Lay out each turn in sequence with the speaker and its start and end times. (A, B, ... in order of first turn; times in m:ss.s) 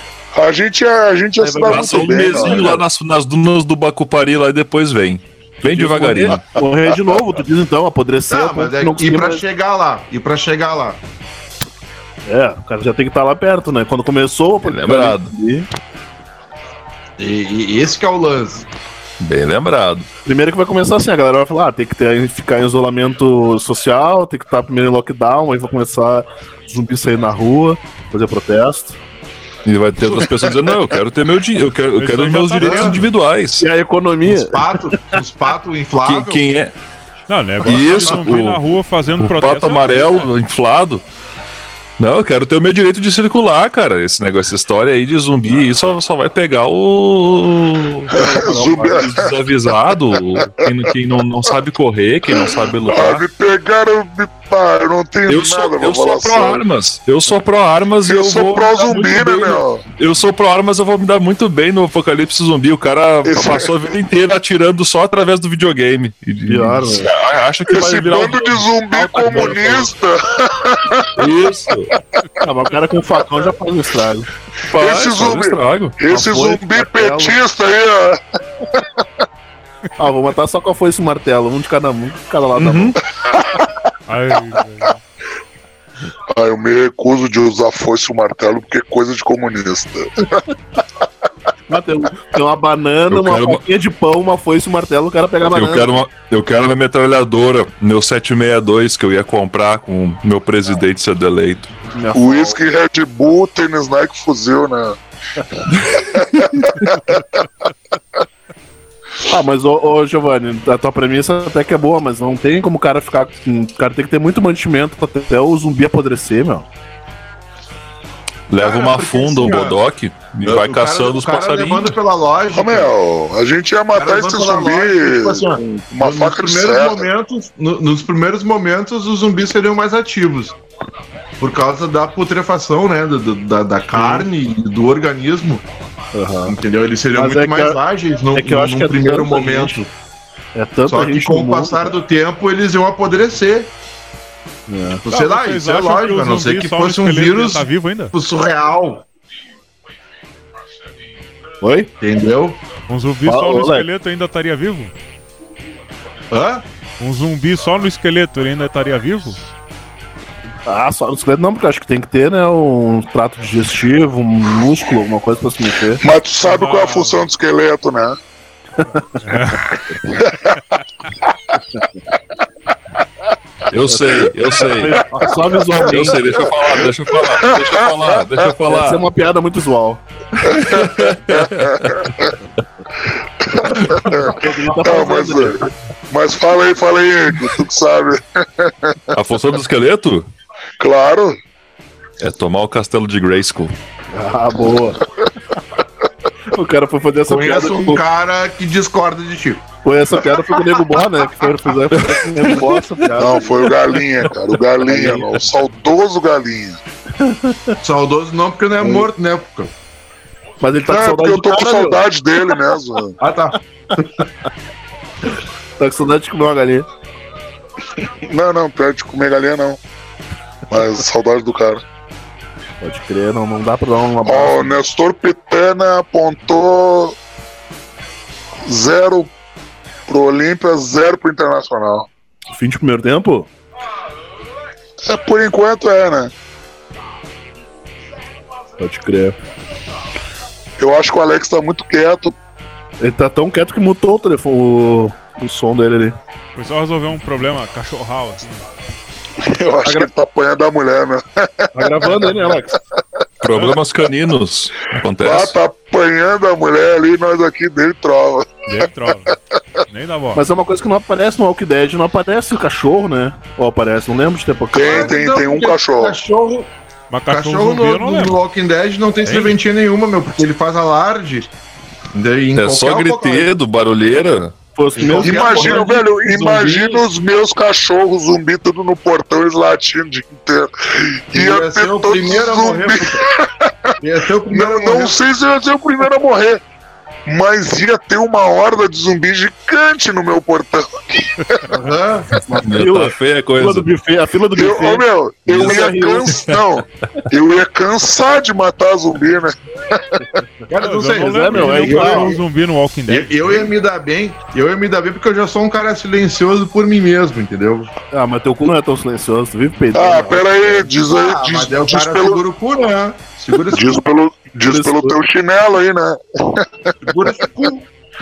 0:00.3-0:02.7 A
0:01.4-0:02.8 B
0:01.7-0:06.4 C
0:05.7-0:09.4 B
0:08.3-0:11.0 D
0:12.3-0:15.7 B
0:14.6-0:15.3 C
0:17.2-0:18.7 D
0:19.2-0:20.1 C
0:20.2-0:29.0 B
0:29.6-0:33.7 C
0:32.0-0:33.0 E
0:32.6-0:33.0 D
0:33.6-0:35.1 B
0:34.3-0:36.4 D
0:36.0-0:36.8 C
0:37.3-0:40.2 E
0:37.6-0:38.6 C
0:39.2-0:41.0 C
0:42.0-0:53.2 C
0:48.1-0:49.1 B
0:48.1-0:49.2 A
0:50.4-0:50.7 A
0:52.3-0:56.6 A
0:55.3-1:09.8 C
0:58.1-0:59.8 A
1:03.3-1:03.7 A
1:06.5-1:07.1 B
1:07.7-1:11.3 A
1:09.2-1:09.6 B
1:11.2-1:11.9 C
1:12.4-1:14.3 B
1:14.7-1:16.0 C
1:14.7-1:19.0 A
1:16.1-1:17.4 B
1:20.0-1:23.0 B
1:22.5-1:23.0 C
1:23.2-1:23.6 A
1:24.1-1:25.0 E
1:26.3-1:30.4 A
1:31.7-1:36.0 B
1:33.1-1:33.6 C
1:35.5-1:41.7 C
1:41.9-1:42.6 B
1:42.1-1:45.0 A
1:45.7-1:46.9 C
1:46.2-1:47.4 A
1:49.3-1:56.7 B
1:58.5-2:02.0 C
1:58.6-1:59.8 D
2:00.4-2:02.9 D
2:02.5-2:07.1 A
2:04.0-2:10.6 D
2:11.4-2:15.6 D
2:13.9-2:14.3 B
2:16.1-2:16.6 B
2:16.5-2:19.9 D
2:17.1-2:17.8 B
2:18.3-2:19.9 B
2:20.6-2:22.0 B
2:20.9-2:23.7 D
2:24.7-2:25.0 B
2:24.9-2:29.0 D
2:25.1-2:28.1 E
2:31.6-2:31.9 B
2:32.0-2:32.6 D
2:32.9-2:34.9 E
2:33.3-2:33.9 B
2:36.3-2:36.6 D
2:37.0-2:39.4 E
2:40.7-2:46.0 B
2:46.0-2:48.2 A
2:46.4-2:47.3 E
2:48.8-2:49.2 B
2:49.2-2:49.7 E
2:50.1-2:51.6 A
2:53.7-2:59.0 C
2:53.9-2:56.3 B
2:56.3-2:58.0 A
2:58.7-3:00.6 B
3:00.4-3:02.3 A
3:00.5-3:02.1 C
3:03.1-3:09.2 A
3:04.1-3:05.7 B
3:04.2-3:04.8 D
3:09.2-3:10.3 C
3:10.8-3:11.4 A
3:12.2-3:13.8 C
3:14.1-3:15.0 B
3:16.5-3:18.0 B
3:17.3-3:19.6 D
3:19.8-3:24.0 B
3:21.9-3:23.1 C
3:23.2-3:26.8 A
3:24.8-3:25.3 B
3:27.2-3:27.8 B
3:27.8-3:29.7 D
3:28.8-3:29.1 B
3:30.6-3:32.0 B
3:30.9-3:33.2 A
3:33.2-3:34.0 D
3:35.8-3:36.9 B
3:38.0-3:39.8 A
3:40.7-3:41.8 A
3:42.8-3:44.8 B
3:44.2-3:47.2 A
3:48.7-3:49.3 A
3:50.1-3:52.1 A
3:52.5-3:53.5 B
3:55.0-3:56.3 A
3:58.8-3:59.4 B
4:00.8-4:02.4 A
4:03.0-4:06.2 B
4:06.6-4:08.6 E
4:09.4-4:12.2 A
4:11.8-4:12.8 B
4:13.4-4:15.6 C
4:15.2-4:18.6 A
4:18.7-4:19.4 E
4:19.9-4:20.4 E
4:20.3-4:25.1 B
4:24.7-4:26.2 A
4:24.8-4:26.7 D
4:27.1-4:28.4 E
4:27.3-4:31.5 D
4:29.2-4:29.6 E
4:32.1-4:33.5 D
4:32.6-4:34.6 C
4:34.8-4:35.9 B
4:35.0-4:37.1 D
4:35.0-4:46.6 A
4:41.3-4:43.2 D
4:44.0-4:45.2 D
4:47.3-4:51.6 A
4:51.7-4:52.4 D
4:52.3-4:56.4 B
4:52.6-4:53.9 C
4:54.6-5:00.4 A
4:55.5-4:56.6 C
5:00.7-5:02.4 D
5:00.8-5:03.7 E
5:01.2-5:02.4 B
5:03.1-5:07.9 D
5:08.1-5:10.9 B
5:09.9-5:12.4 A
5:11.1-5:14.0 D
5:13.7-5:17.0 A
5:14.6-5:15.2 B
5:17.0-5:17.9 D